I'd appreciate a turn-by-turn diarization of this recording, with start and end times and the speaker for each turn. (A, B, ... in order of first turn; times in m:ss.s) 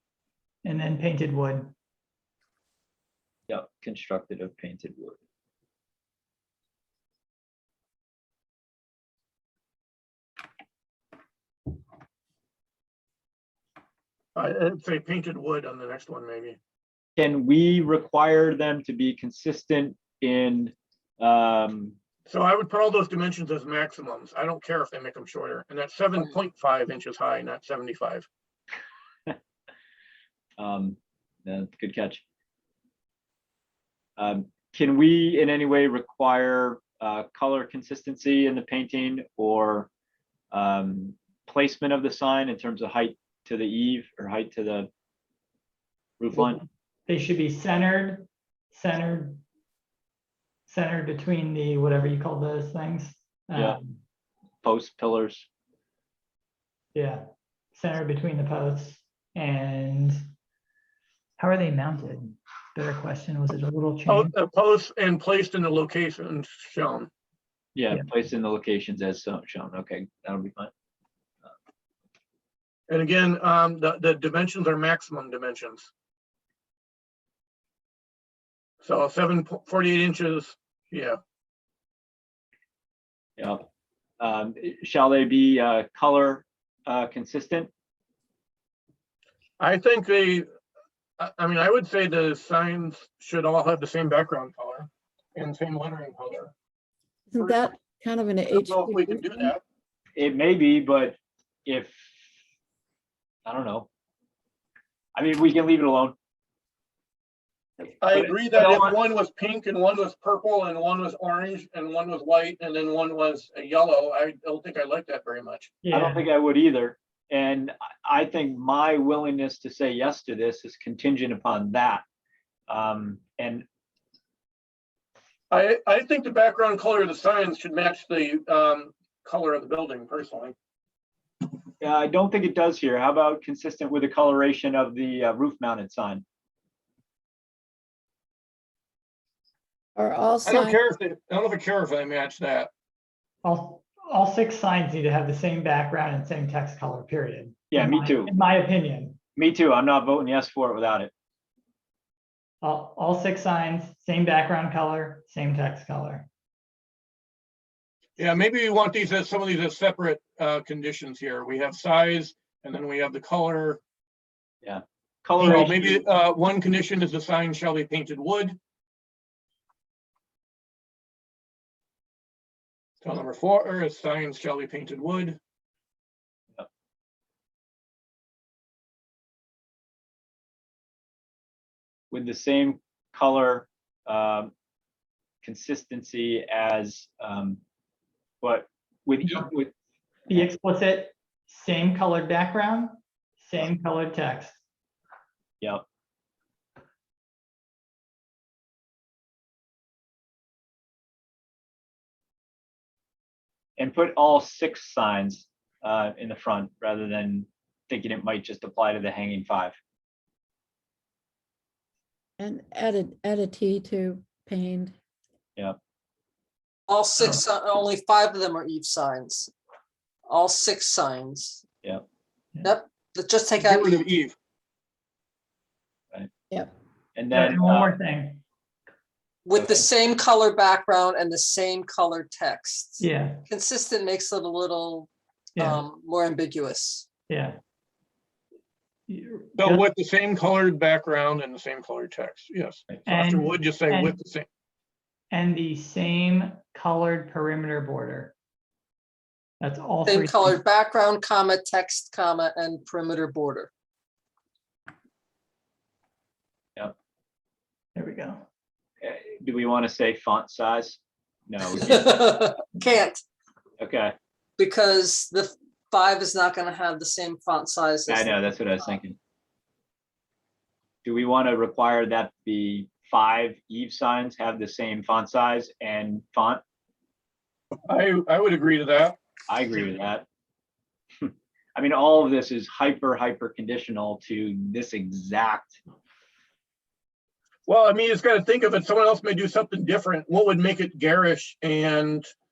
0:00.6-0:01.7 A
0:03.5-0:05.2 B
0:14.4-0:16.6 C
0:17.2-0:22.0 B
0:22.3-0:28.3 C
0:30.6-0:32.2 B
0:34.2-0:39.9 B
0:40.5-0:44.9 B
0:46.2-0:46.6 B
0:47.1-0:49.4 A
0:50.7-0:54.0 A
0:54.6-0:55.5 B
0:56.9-1:00.2 A
1:01.4-1:04.3 A
1:04.1-1:07.1 C
1:07.8-1:10.7 B
1:12.9-1:15.9 C
1:18.8-1:21.2 C
1:23.4-1:23.6 B
1:24.2-1:27.7 B
1:29.6-1:30.5 C
1:31.2-1:36.5 C
1:37.3-1:39.5 D
1:38.5-1:39.6 C
1:40.2-1:42.1 B
1:43.5-1:43.9 B
1:45.2-1:46.2 B
1:48.0-1:55.8 C
1:48.1-1:49.0 B
1:55.8-1:56.3 A
1:55.9-2:02.0 B
2:02.7-2:03.6 B
2:05.5-2:10.6 C
2:11.8-2:16.2 B
2:20.0-2:20.8 D
2:20.4-2:22.7 C
2:23.4-2:29.2 A
2:27.7-2:28.3 B
2:29.4-2:31.1 B
2:32.6-2:36.3 A
2:38.2-2:43.8 C
2:44.6-2:46.0 B
2:45.4-2:48.6 C
2:53.0-2:55.4 C
3:02.1-3:04.5 B
3:05.4-3:07.6 B
3:08.4-3:09.7 B
3:10.3-3:14.6 A
3:23.8-3:29.8 B
3:32.4-3:34.9 D
3:36.9-3:39.5 E
3:40.3-3:41.6 E
3:42.6-3:44.0 E
3:43.6-3:44.4 C
3:47.2-3:47.9 B
3:47.3-3:48.4 A
3:49.5-3:57.1 E
3:53.0-3:53.4 A
3:55.6-3:55.8 A
3:57.3-3:57.6 A
3:59.1-3:59.9 A
3:59.6-4:04.5 C
4:03.1-4:04.2 A
4:05.3-4:08.3 A
4:09.6-4:10.6 A
4:10.1-4:13.7 E
4:18.0-4:18.4 A
4:19.0-4:22.5 B
4:21.7-4:23.2 E
4:23.8-4:24.2 B
4:24.6-4:29.0 E
4:28.1-4:29.2 B
4:31.0-4:36.6 B
4:37.9-4:39.2 C
4:39.5-4:40.2 B
4:41.2-4:45.8 B
4:47.7-4:52.3 C